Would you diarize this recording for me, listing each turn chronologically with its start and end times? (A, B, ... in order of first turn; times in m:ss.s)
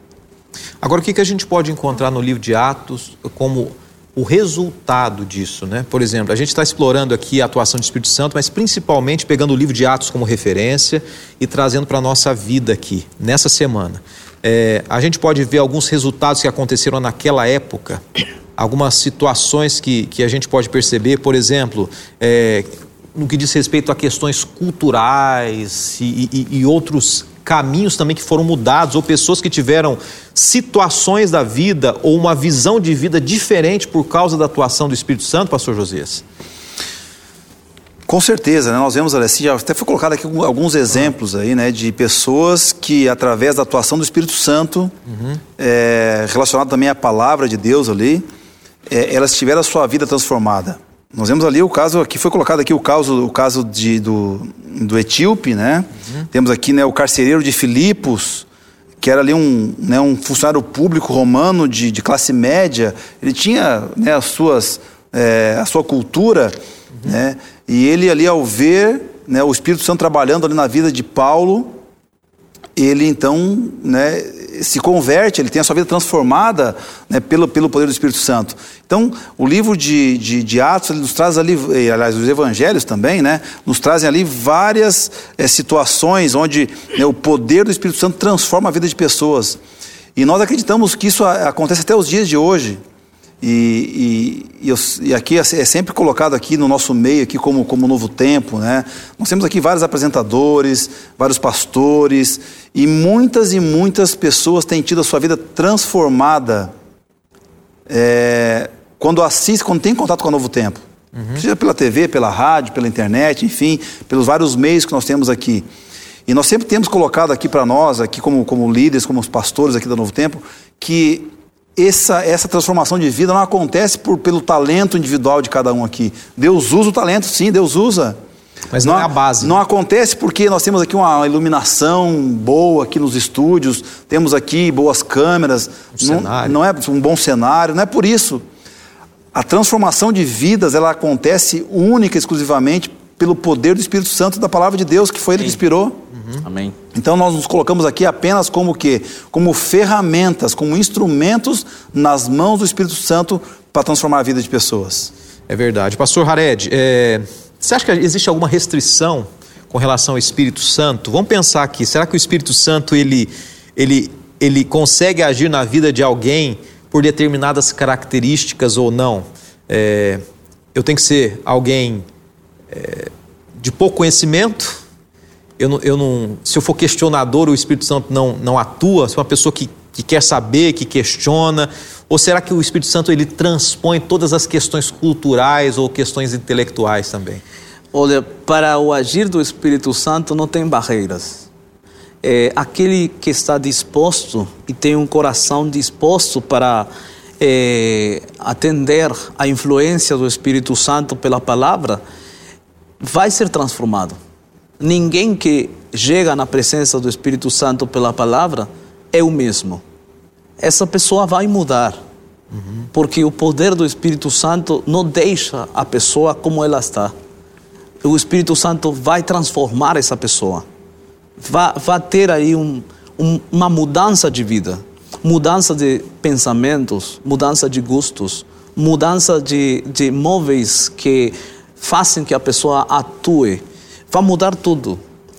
0:00.8-0:18.0 A
0:18.6-0:36.2 A
0:38.1-0:44.9 B
0:45.1-0:45.4 A
0:45.6-0:48.2 B
0:48.9-0:58.4 B
0:59.0-1:11.7 B
1:12.8-1:29.6 B
1:30.2-1:32.8 B
1:33.4-1:46.7 B
1:47.9-1:50.8 B
1:51.1-1:51.4 A
1:51.3-1:55.6 B
1:56.3-2:08.2 B
2:08.7-2:09.6 A
2:08.8-2:18.4 B
2:16.0-2:16.6 A
2:19.3-2:26.0 B
2:26.1-2:26.4 A
2:26.4-2:26.8 C
2:26.9-2:35.1 B
2:35.5-2:50.2 A
2:50.7-2:52.0 A
2:52.7-2:54.8 A
2:55.6-3:07.4 A
3:07.9-3:11.5 C
3:12.2-3:22.0 C
3:23.0-3:24.2 C
3:24.8-3:29.8 C
3:30.6-3:32.0 C
3:32.5-3:32.9 A
3:32.9-3:37.1 C
3:38.0-3:40.6 C
3:41.4-3:55.0 C